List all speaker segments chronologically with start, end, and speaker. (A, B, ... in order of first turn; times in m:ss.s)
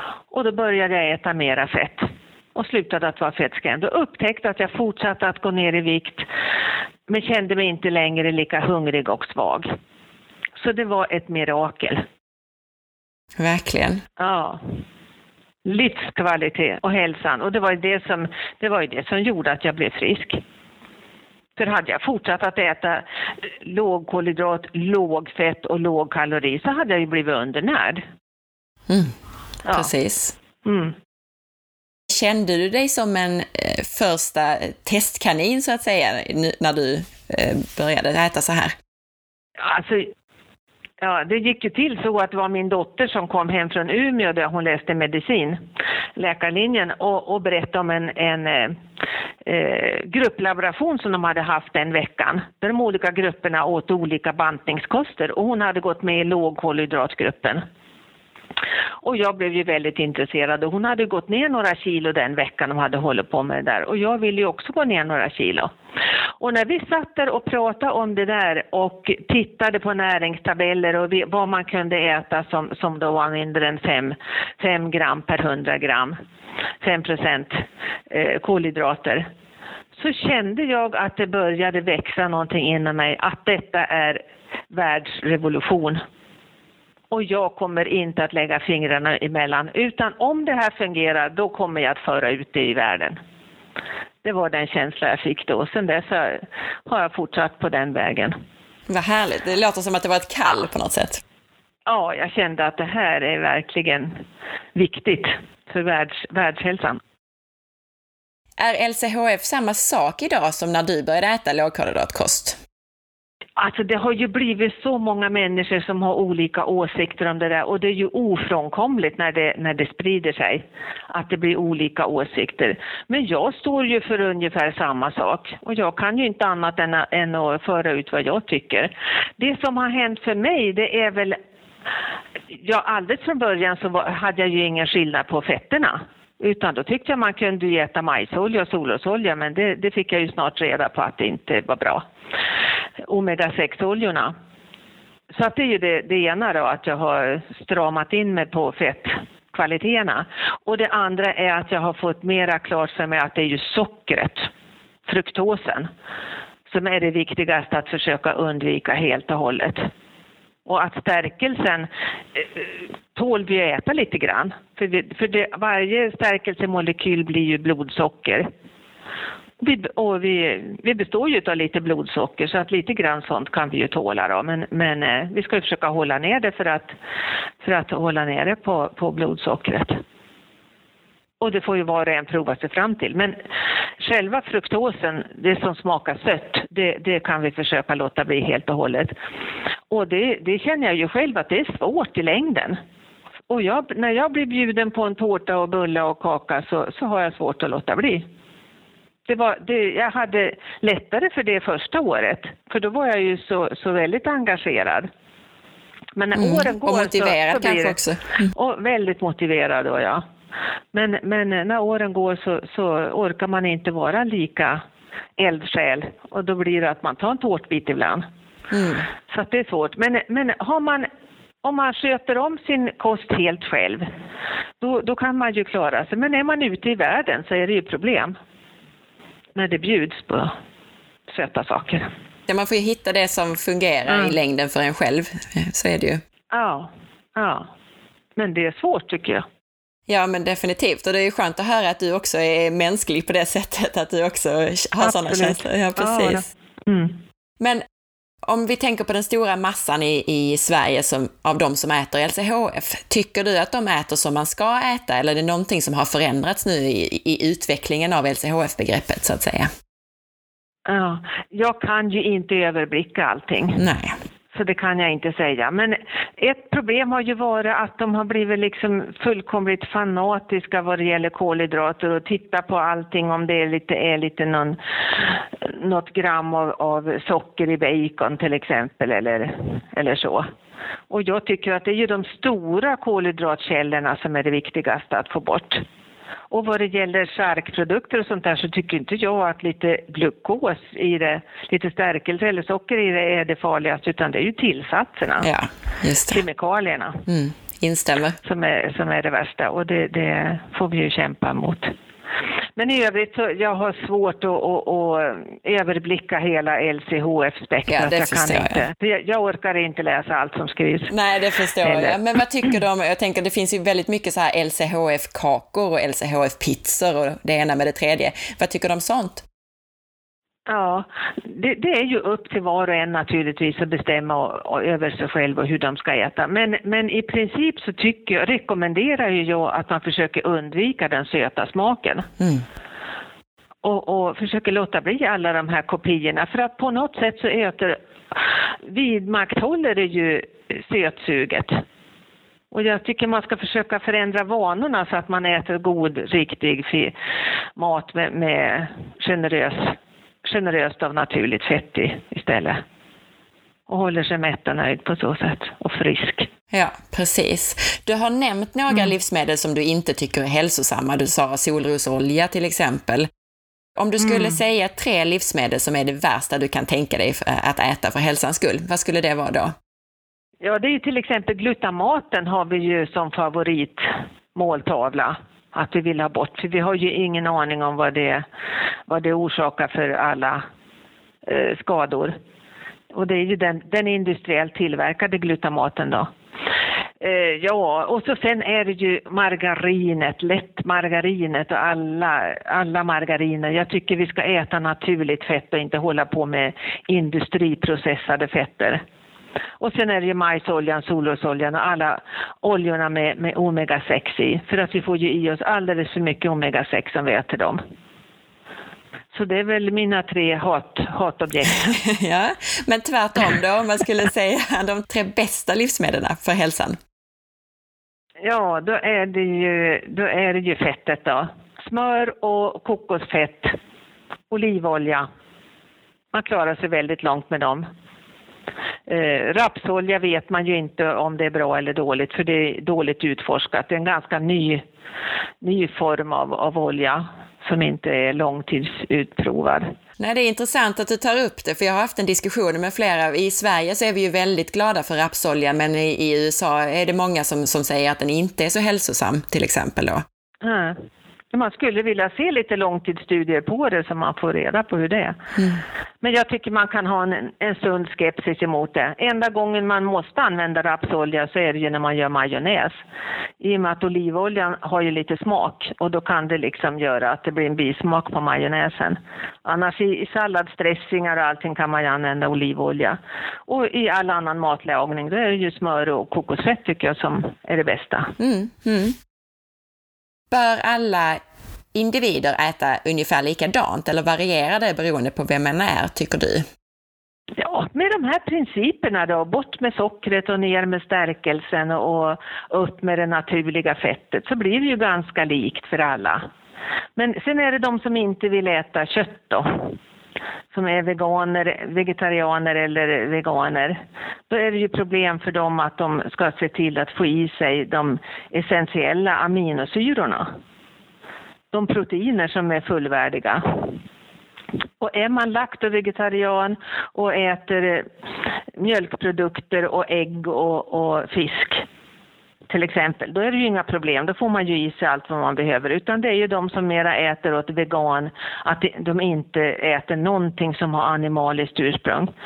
0:00.3-0:06.3 A
0:07.1-0:09.7 A
0:10.5-0:12.0 A
0:13.4-0:14.0 B
0:14.2-0:14.6 A
0:15.6-0:20.4 A
0:21.6-0:28.0 A
0:28.9-0:29.1 B
0:29.7-0:30.4 B
0:30.6-0:31.0 A
0:32.1-0:38.7 B
0:39.6-0:40.1 A
0:41.0-0:45.6 A
0:46.2-0:48.8 A
0:49.4-0:57.6 A
0:59.0-1:05.7 A
1:06.4-1:16.2 A
1:16.8-1:19.3 A
1:19.9-1:26.0 A
1:27.1-1:33.2 A
1:34.2-1:38.3 A
1:38.9-1:41.2 B
1:41.8-1:44.2 A
1:44.7-1:47.0 A
1:48.6-1:52.6 B
1:53.6-2:11.4 A
2:12.5-2:22.0 A
2:23.0-2:24.3 A
2:25.3-2:34.5 A
2:35.0-2:35.9 A
2:36.7-2:39.9 A
2:40.6-2:48.5 A
2:49.6-2:56.9 A
2:57.6-3:00.0 A
3:01.4-3:03.3 A
3:04.0-3:09.1 A
3:09.9-3:12.8 A
3:13.5-3:18.2 A
3:19.2-3:25.1 A
3:26.2-3:28.0 A
3:26.3-3:28.5 B
3:28.5-3:30.2 A
3:30.9-3:34.8 A
3:35.4-3:38.2 A
3:38.7-3:39.1 B
3:39.3-3:41.1 A
3:41.6-3:44.0 A
3:44.8-3:48.3 A
3:49.5-3:50.5 A
3:51.3-3:52.1 A
3:52.5-3:56.2 B
3:54.1-3:54.3 A
3:56.5-3:57.7 A
3:58.4-3:59.4 A
4:00.1-4:06.4 B
4:05.0-4:07.2 A
4:08.4-4:19.7 B
4:20.8-4:23.8 A
4:23.8-4:24.1 B
4:24.5-4:40.4 A
4:41.1-4:45.8 A
4:46.5-4:55.5 A
4:55.4-4:56.4 B
4:56.3-4:57.2 A
4:57.3-4:58.4 B
4:58.4-5:01.9 A
5:02.8-5:11.1 A
5:07.9-5:08.8 B
5:11.1-5:19.4 B
5:11.8-5:12.2 A
5:20.7-5:32.3 A
5:33.8-5:38.0 A
5:38.8-5:41.8 A
5:42.7-5:47.1 A
5:47.8-5:52.8 A
5:53.9-5:56.5 A
5:56.7-6:03.3 B
6:04.0-6:09.7 B
6:04.2-6:04.6 A
6:10.6-6:18.4 A
6:19.1-6:20.6 A
6:21.4-6:22.3 A
6:23.1-6:26.3 A
6:27.2-6:39.0 A
6:39.8-6:47.8 A
6:49.3-6:51.9 A
6:51.6-6:57.0 B
6:58.4-7:03.7 A
7:04.5-7:05.2 A
7:06.3-7:07.8 A
7:09.1-7:14.8 A
7:15.6-7:19.9 A
7:20.2-7:30.2 B
7:30.6-7:31.0 A
7:31.5-7:35.4 A
7:36.2-7:43.0 A
7:43.6-7:58.3 A
7:58.4-7:59.2 B
8:00.5-8:01.4 B
8:01.9-8:06.6 B
8:07.6-8:16.4 A
8:17.2-8:19.9 A
8:20.7-8:30.5 A
8:31.7-8:34.0 A
8:35.0-8:38.1 A
8:38.7-8:41.8 A
8:42.7-8:52.3 A